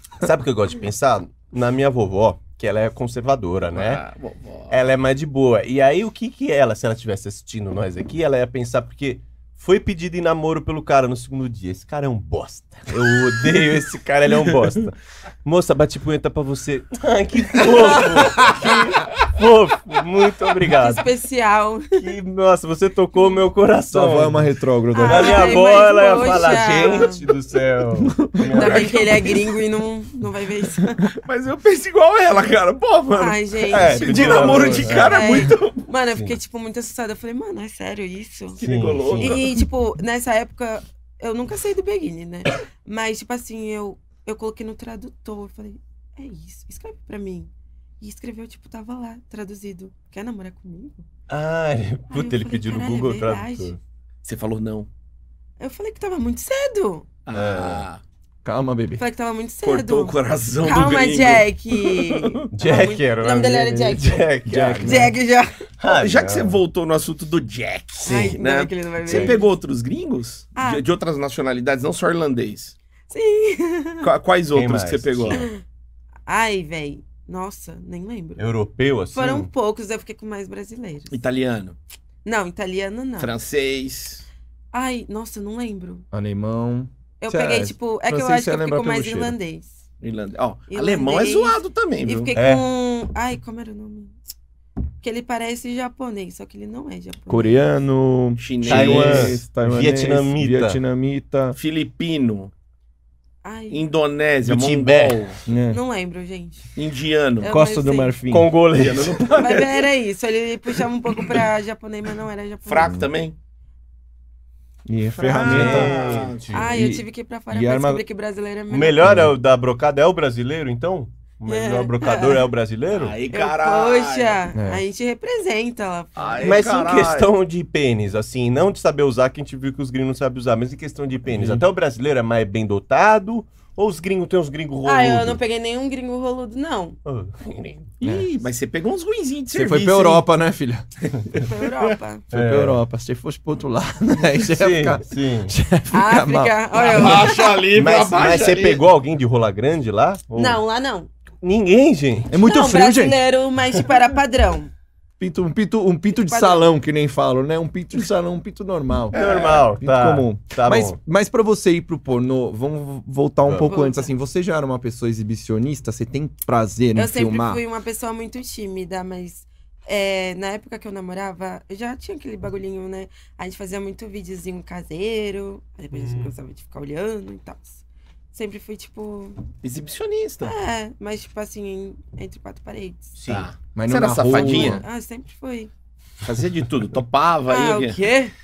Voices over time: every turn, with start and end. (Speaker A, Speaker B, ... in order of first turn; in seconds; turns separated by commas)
Speaker A: 0.2-4.0, Speaker B: 3.7-4.8, Speaker A: 4.7-21.0, Speaker C: 18.0-18.5, Speaker C: 20.7-22.1, Speaker A: 22.0-29.2, Speaker D: 23.9-25.7, Speaker C: 24.9-27.2, Speaker B: 26.7-27.1, Speaker D: 28.0-28.5, Speaker B: 28.5-29.4, Speaker C: 28.5-31.1, Speaker B: 31.2-35.8, Speaker C: 33.1-38.6, Speaker A: 33.7-35.4, Speaker B: 38.5-39.5, Speaker A: 38.6-39.4, Speaker C: 39.2-51.1, Speaker A: 51.3-53.8, Speaker C: 52.1-53.8, Speaker B: 54.2-54.9, Speaker C: 55.6-57.1, Speaker B: 57.2-58.0, Speaker A: 57.3-57.8, Speaker D: 58.4-59.0, Speaker C: 59.0-64.2, Speaker B: 59.6-62.5, Speaker A: 62.5-65.1, Speaker D: 64.5-65.1, Speaker C: 64.8-65.5, Speaker A: 65.8-66.6, Speaker B: 65.8-72.7, Speaker C: 68.0-69.5, Speaker D: 69.0-69.4, Speaker C: 70.5-70.8, Speaker C: 73.1-74.1, Speaker B: 74.0-75.5, Speaker A: 74.5-75.4, Speaker C: 75.3-75.6, Speaker C: 76.3-78.5, Speaker A: 78.4-79.5, Speaker C: 79.1-81.2, Speaker B: 81.1-81.8, Speaker C: 82.2-83.3, Speaker B: 83.2-84.2, Speaker C: 84.7-86.0, Speaker D: 86.1-89.3, Speaker C: 87.2-89.7, Speaker B: 90.0-92.3, Speaker C: 90.7-94.2, Speaker A: 92.3-92.6, Speaker C: 95.0-97.6, Speaker D: 97.3-101.6, Speaker B: 98.4-99.4, Speaker A: 98.6-100.8, Speaker B: 101.5-102.5, Speaker C: 103.4-103.8, Speaker B: 103.7-105.4, Speaker A: 104.4-105.2, Speaker D: 105.5-105.8, Speaker C: 105.7-106.7, Speaker B: 106.8-107.5, Speaker C: 107.4-108.2, Speaker D: 107.4-108.5, Speaker A: 108.3-109.3, Speaker B: 108.7-109.8, Speaker C: 109.3-113.0, Speaker B: 112.6-113.3, Speaker D: 114.9-118.0, Speaker B: 115.2-116.5, Speaker A: 115.2-116.8, Speaker C: 116.5-119.0, Speaker A: 118.7-123.2, Speaker D: 119.0-119.3, Speaker C: 121.5-122.4, Speaker B: 122.9-124.4, Speaker C: 123.3-126.7, Speaker D: 124.5-124.8, Speaker B: 126.2-127.3, Speaker A: 126.4-135.4, Speaker D: 131.2-131.6, Speaker C: 134.8-137.0, Speaker A: 137.0-137.8, Speaker B: 138.0-140.2, Speaker D: 139.5-140.9, Speaker C: 141.4-142.2, Speaker A: 142.3-142.8, Speaker D: 142.3-146.5, Speaker A: 144.4-145.5, Speaker C: 145.9-147.6, Speaker B: 146.7-148.8, Speaker A: 147.6-150.6, Speaker C: 150.3-151.1, Speaker A: 151.4-152.3, Speaker D: 152.3-153.2, Speaker C: 152.3-154.7, Speaker D: 155.2-159.2, Speaker C: 156.1-156.7, Speaker B: 159.1-159.7, Speaker A: 159.1-161.0, Speaker D: 159.8-167.6, Speaker A: 163.4-163.7, Speaker C: 163.6-164.1, Speaker C: 166.9-179.4, Speaker A: 175.9-176.3, Speaker B: 179.6-180.5, Speaker C: 180.4-183.1, Speaker A: 183.2-183.5, Speaker B: 183.3-184.8, Speaker D: 183.7-184.8, Speaker C: 184.2-185.7, Speaker B: 186.2-188.0, Speaker C: 187.5-188.3